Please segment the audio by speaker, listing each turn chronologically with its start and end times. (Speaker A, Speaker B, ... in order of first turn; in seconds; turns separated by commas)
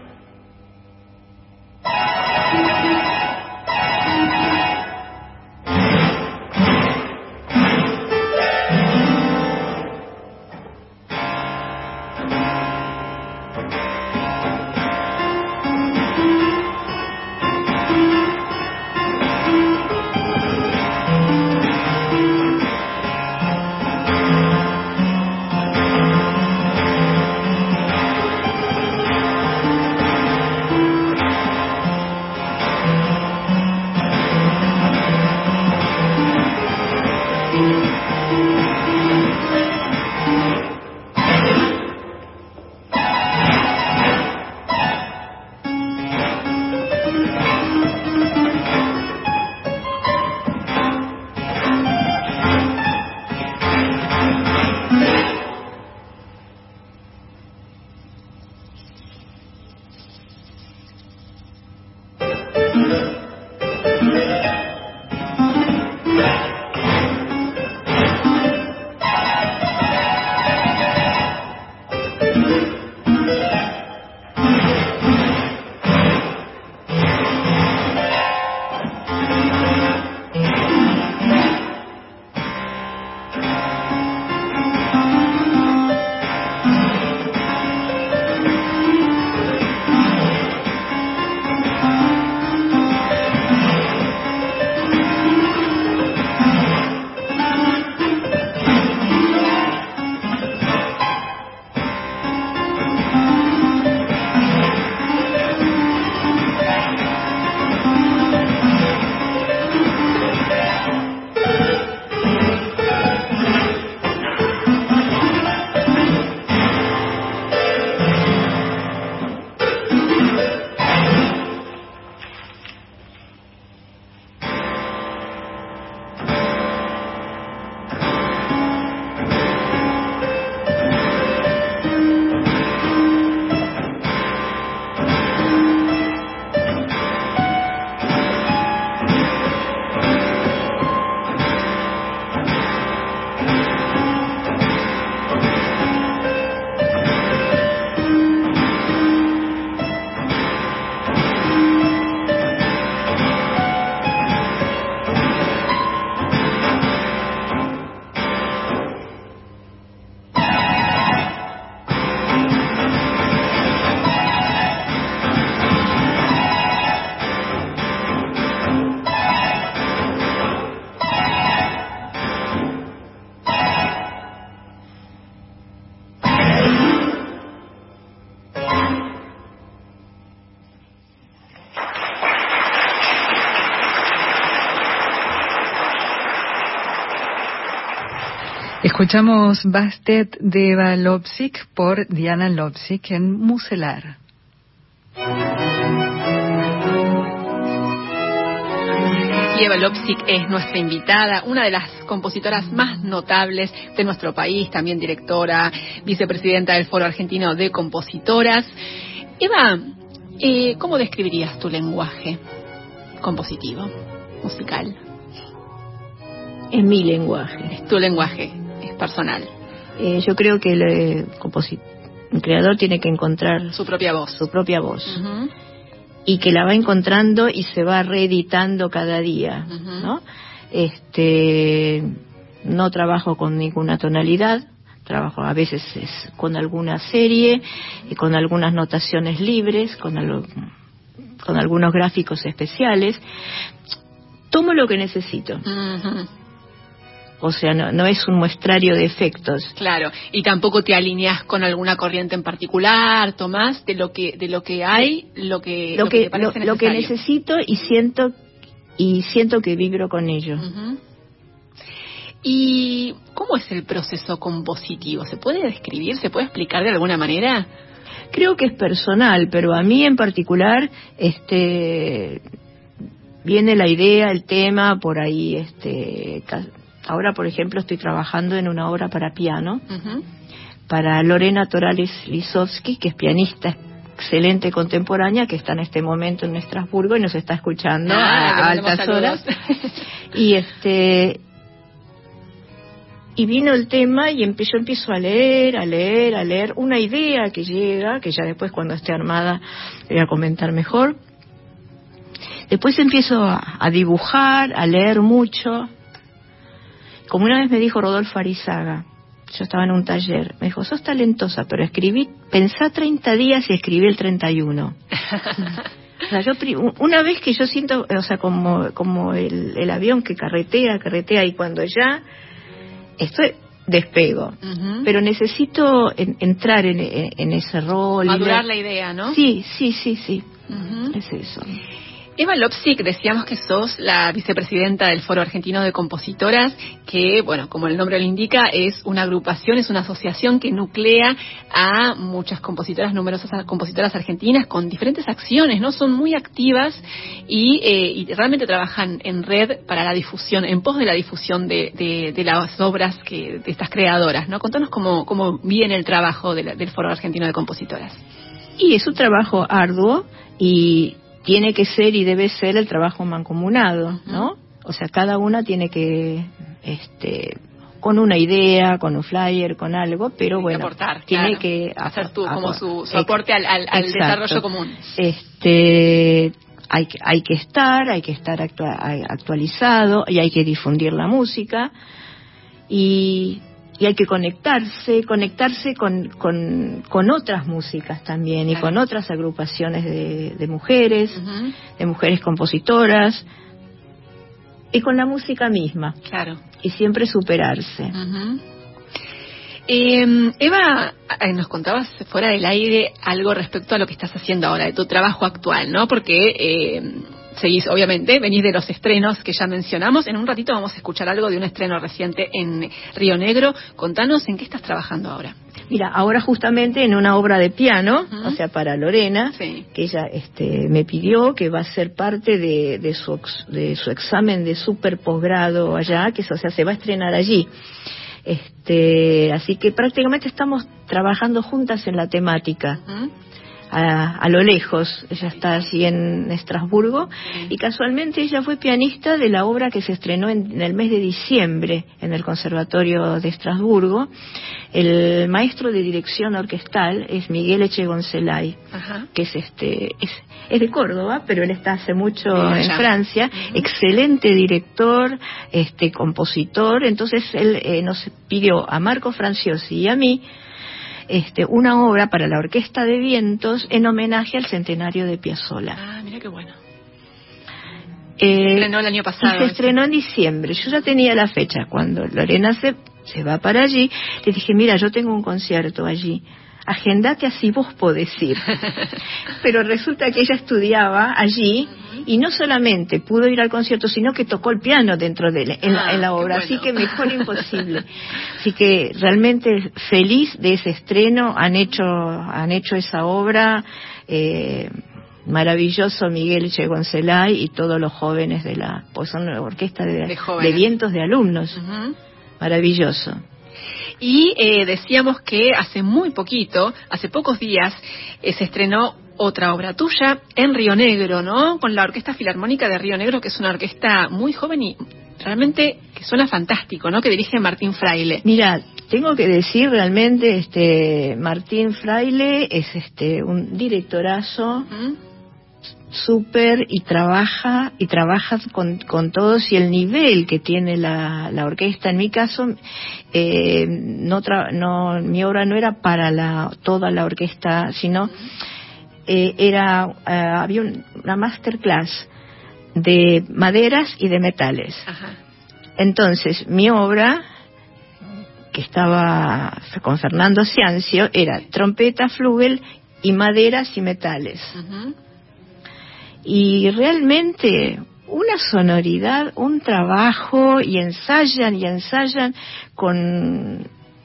Speaker A: 188.8-194.2, Speaker B: 199.5-208.7, Speaker B: 209.4-212.4, Speaker B: 213.2-215.0, Speaker C: 216.7-217.7, Speaker B: 217.7-219.5, Speaker C: 220.0-223.7, Speaker B: 223.7-224.5, Speaker C: 224.4-225.2, Speaker B: 225.1-225.5, Speaker C: 226.3-240.5, Speaker B: 229.7-230.1, Speaker C: 241.4-243.2, Speaker C: 244.5-245.6, Speaker B: 245.7-246.3, Speaker C: 247.4-249.7, Speaker B: 249.8-257.1, Speaker C: 256.0-258.4, Speaker C: 259.0-260.7, Speaker B: 260.6-261.0, Speaker B: 262.4-267.7, Speaker C: 268.3-272.4, Speaker C: 273.4-279.8, Speaker B: 279.9-280.2, Speaker C: 280.9-289.4, Speaker B: 288.1-289.9, Speaker C: 290.3-291.4, Speaker C: 293.4-301.2, Speaker C: 302.7-305.9, Speaker C: 307.3-315.0, Speaker C: 316.3-322.2, Speaker C: 323.2-328.6, Speaker B: 324.6-325.1, Speaker B: 328.3-329.4, Speaker C: 329.3-330.5, Speaker B: 330.7-331.2, Speaker C: 331.1-331.8, Speaker B: 332.4-358.2, Speaker C: 358.8-373.3, Speaker B: 364.2-364.5, Speaker B: 370.6-375.1, Speaker C: 373.9-374.6, Speaker C: 375.2-381.9, Speaker C: 382.9-391.4, Speaker B: 391.4-391.7, Speaker C: 392.0-393.5, Speaker C: 394.9-396.2, Speaker B: 396.3-396.6, Speaker C: 396.8-398.1, Speaker B: 398.1-398.6, Speaker B: 399.9-415.6, Speaker C: 415.9-427.7, Speaker B: 419.6-419.9, Speaker C: 428.4-433.0, Speaker C: 433.9-444.3, Speaker C: 444.9-448.8, Speaker B: 448.9-449.3, Speaker C: 449.3-460.4, Speaker B: 452.5-453.8, Speaker C: 461.3-466.0, Speaker B: 466.0-466.8, Speaker C: 468.4-468.9, Speaker B: 468.6-470.0, Speaker C: 469.4-478.8, Speaker C: 479.6-494.9, Speaker B: 485.8-487.9, Speaker C: 495.4-501.8, Speaker B: 500.3-500.9, Speaker B: 501.8-502.2, Speaker C: 502.6-503.4, Speaker B: 504.2-518.4, Speaker C: 518.4-524.9, Speaker B: 524.9-525.2, Speaker C: 526.1-532.8, Speaker C: 533.3-538.3, Speaker C: 539.3-542.3, Speaker C: 543.0-545.1, Speaker B: 545.1-545.4, Speaker C: 546.0-547.4, Speaker C: 548.7-554.8, Speaker B: 554.8-555.1, Speaker C: 556.5-563.9